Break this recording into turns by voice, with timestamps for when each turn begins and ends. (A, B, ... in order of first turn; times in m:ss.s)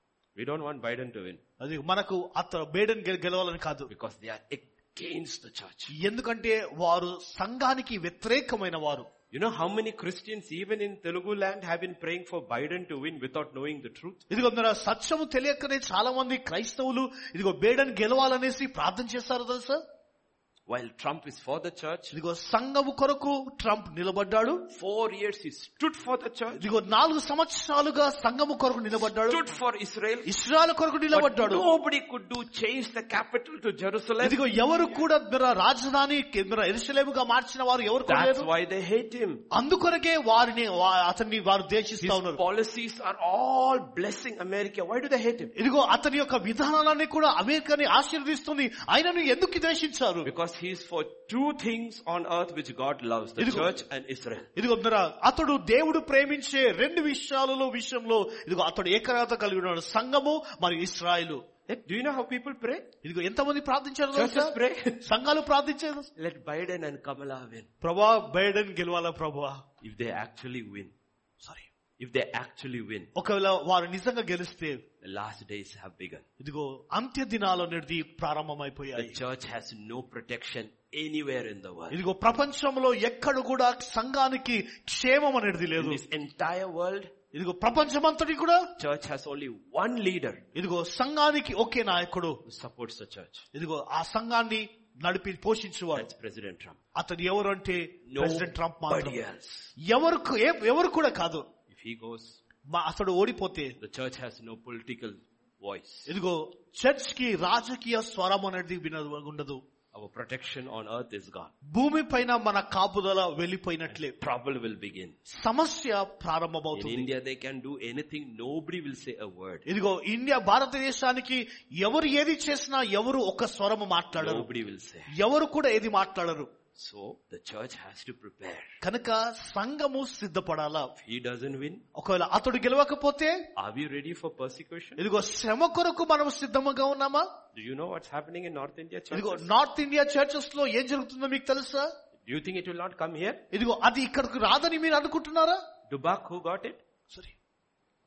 0:00.4-0:01.4 A
0:01.6-0:03.9 B
0:03.9-0:05.9 A
0:06.0-0:09.1 B
0:09.3-0:14.2 A
0:14.3-0:19.8 B
0:20.7-0:22.2 A
0:22.1-0:24.6 B
0:24.7-0:26.6 A
0:26.6-0:29.4 B
0:29.1-0:30.3 A
0:30.3-0:31.7 B
0:31.1-0:34.4 A
0:34.2-0:38.5 B
0:38.1-0:39.4 A
0:39.5-0:42.4 B
0:42.0-0:45.5 A
0:45.6-0:50.3 B
0:50.2-0:54.5 A
0:53.4-0:53.7 B
0:54.6-1:01.4 B
1:01.7-1:02.9 A
1:03.0-1:06.1 B
1:04.1-1:05.1 A
1:06.2-1:07.7 A
1:07.8-1:09.6 B
1:09.8-1:10.9 A
1:12.0-1:13.1 A
1:13.2-1:14.8 B
1:15.0-1:16.2 A
1:16.4-1:19.2 B
1:19.0-1:22.0 A
1:21.9-1:26.0 B
1:25.8-1:27.1 A
1:27.3-1:28.7 B
1:28.8-1:30.4 A
1:30.6-1:32.4 B
1:32.5-1:33.4 A
1:33.5-1:36.1 B
1:35.9-1:36.8 A
1:37.0-1:39.2 B
1:38.1-1:39.7 A
1:39.8-1:41.5 B
1:41.7-1:42.4 A
1:42.7-1:43.8 B
1:43.8-1:46.1 A
1:46.1-1:49.6 B
1:49.9-1:51.5 A
1:51.7-1:54.2 B
1:53.9-1:55.2 A
1:55.3-1:57.1 B
1:56.7-1:59.6 A
1:59.7-2:04.5 B
2:04.2-2:05.1 A
2:05.1-2:06.5 B
2:06.8-2:08.7 A
2:08.8-2:10.9 B
2:11.0-2:11.8 A
2:12.0-2:13.4 B
2:13.6-2:15.0 A
2:15.0-2:17.3 B
2:17.5-2:19.5 A
2:19.1-2:21.9 B
2:22.3-2:23.4 A
2:23.5-2:25.6 B
2:25.9-2:26.8 A